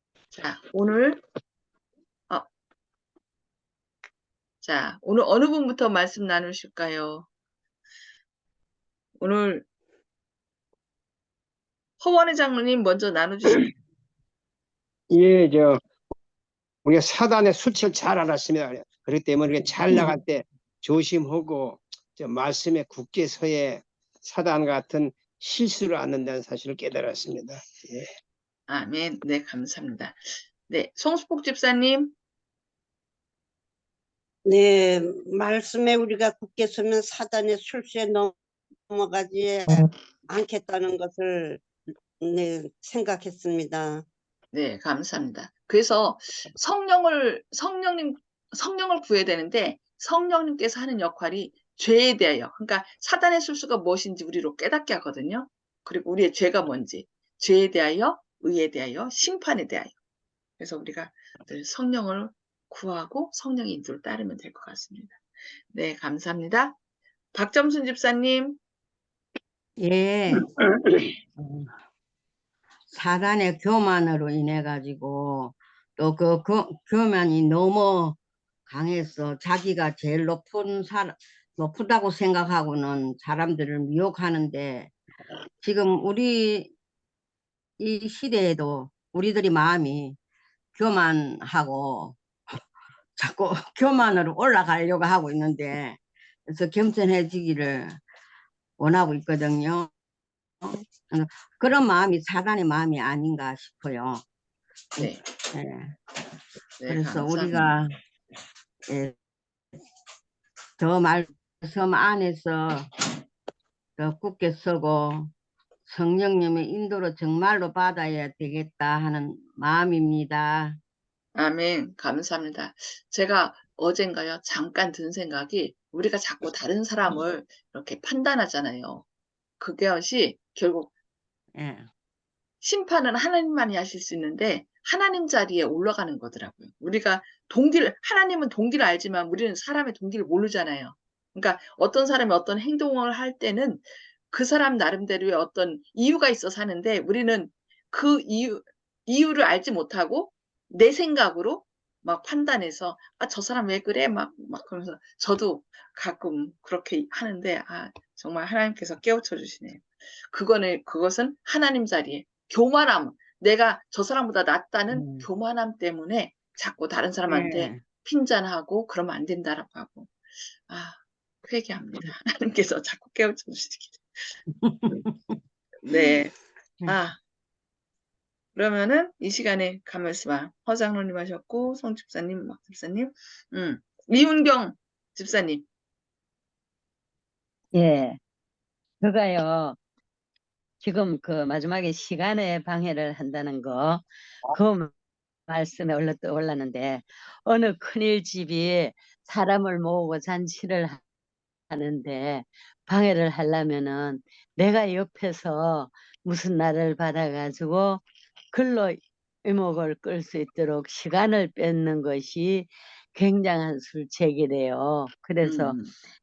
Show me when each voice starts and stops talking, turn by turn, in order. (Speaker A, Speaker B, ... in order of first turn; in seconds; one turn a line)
Speaker A: 0.3-1.2
Speaker A: 4.6-7.3
Speaker A: 9.2-9.7
Speaker A: 12.0-13.7
Speaker B: 15.1-15.8
Speaker B: 16.9-28.1
Speaker A: 28.7-32.1
Speaker C: 34.5-38.3
Speaker C: 38.9-41.6
Speaker C: 42.2-44.0
Speaker A: 44.5-60.0
Speaker A: 60.6-65.2
Speaker A: 65.7-66.8
Speaker A: 67.3-68.6
Speaker D: 69.8-70.5
Speaker D: 71.4-71.7
Speaker D: 72.9-84.9
Speaker D: 85.6-86.7
Speaker D: 87.8-90.2
Speaker D: 90.8-92.2
Speaker D: 93.2-98.0
Speaker D: 98.8-99.9
Speaker D: 100.6-104.2
Speaker D: 105.0-106.0
Speaker A: 106.8-107.8
Speaker D: 106.9-107.9
Speaker D: 108.9-109.2
Speaker D: 110.8-112.9
Speaker D: 114.0-115.3
Speaker D: 115.9-120.8
Speaker A: 121.3-129.0
Speaker A: 129.6-130.9
Speaker D: 131.6-131.9
Speaker A: 132.6-170.1
Speaker D: 164.9-165.3
Speaker D: 167.3-167.8
Speaker A: 170.7-174.3
Speaker D: 174.6-175.3
Speaker A: 175.8-176.3
Speaker A: 176.9-177.2
Speaker A: 178.6-185.7
Speaker E: 187.7-188.2
Speaker E: 189.0-189.8
Speaker E: 190.8-194.9
Speaker E: 195.5-201.0
Speaker E: 201.7-215.8
Speaker A: 215.4-215.9